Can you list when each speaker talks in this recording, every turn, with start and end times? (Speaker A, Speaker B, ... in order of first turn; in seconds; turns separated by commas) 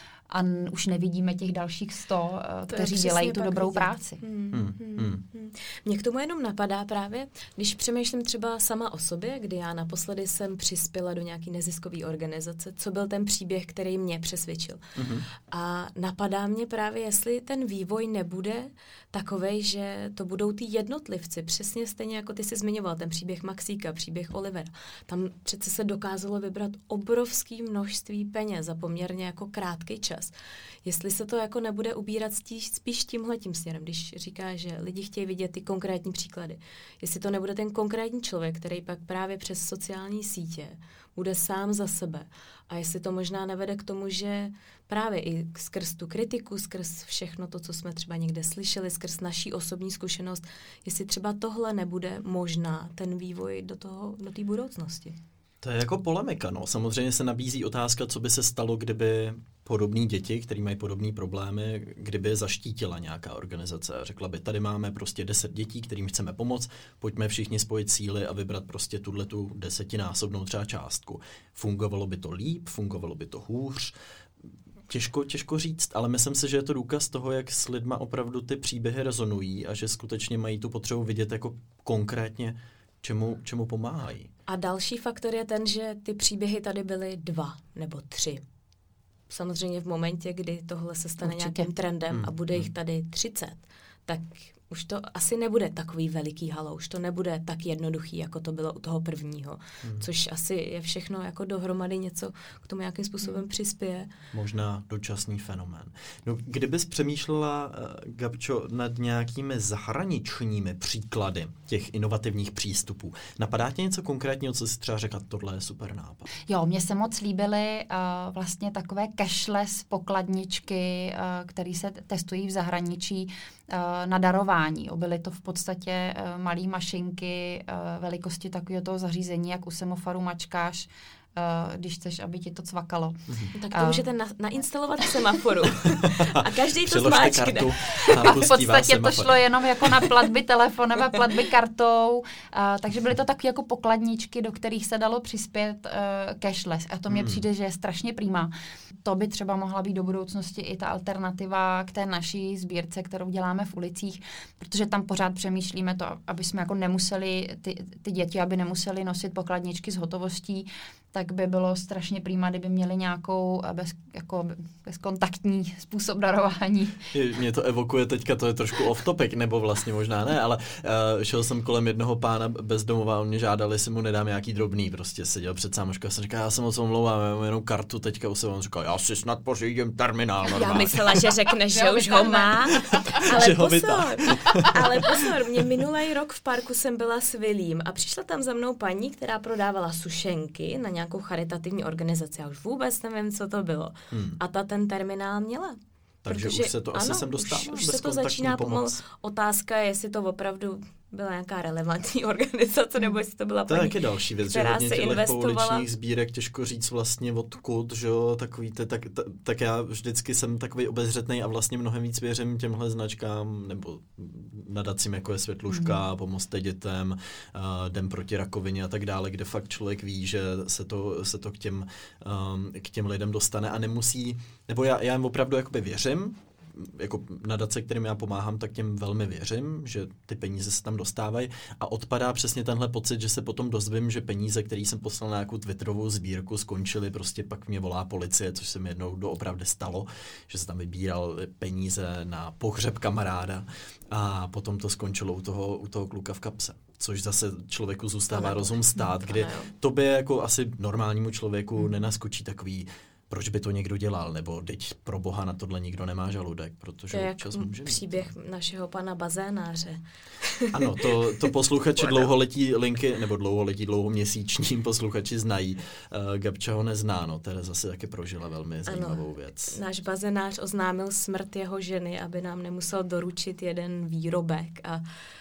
Speaker A: 0.3-4.2, Speaker B: 2.7-14.8, Speaker C: 4.5-5.2, Speaker C: 15.0-15.3, Speaker B: 15.5-55.2, Speaker C: 55.6-73.9, Speaker C: 74.9-84.3, Speaker B: 84.5-88.4, Speaker B: 89.3-104.1, Speaker A: 91.2-91.7, Speaker C: 92.1-92.7, Speaker C: 99.8-100.1, Speaker C: 104.3-116.3, Speaker A: 116.5-134.0, Speaker B: 133.6-138.2, Speaker C: 135.9-140.1, Speaker A: 138.1-148.5, Speaker C: 147.1-147.4, Speaker A: 149.0-167.1, Speaker C: 167.1-181.3, Speaker B: 180.5-205.8, Speaker A: 181.7-182.9, Speaker C: 182.9-185.2, Speaker C: 194.1-194.4, Speaker C: 196.2-199.0, Speaker C: 203.7-258.3, Speaker A: 215.7-216.0, Speaker B: 248.3-249.7, Speaker B: 257.1-261.4, Speaker C: 260.7-269.8, Speaker B: 268.9-275.0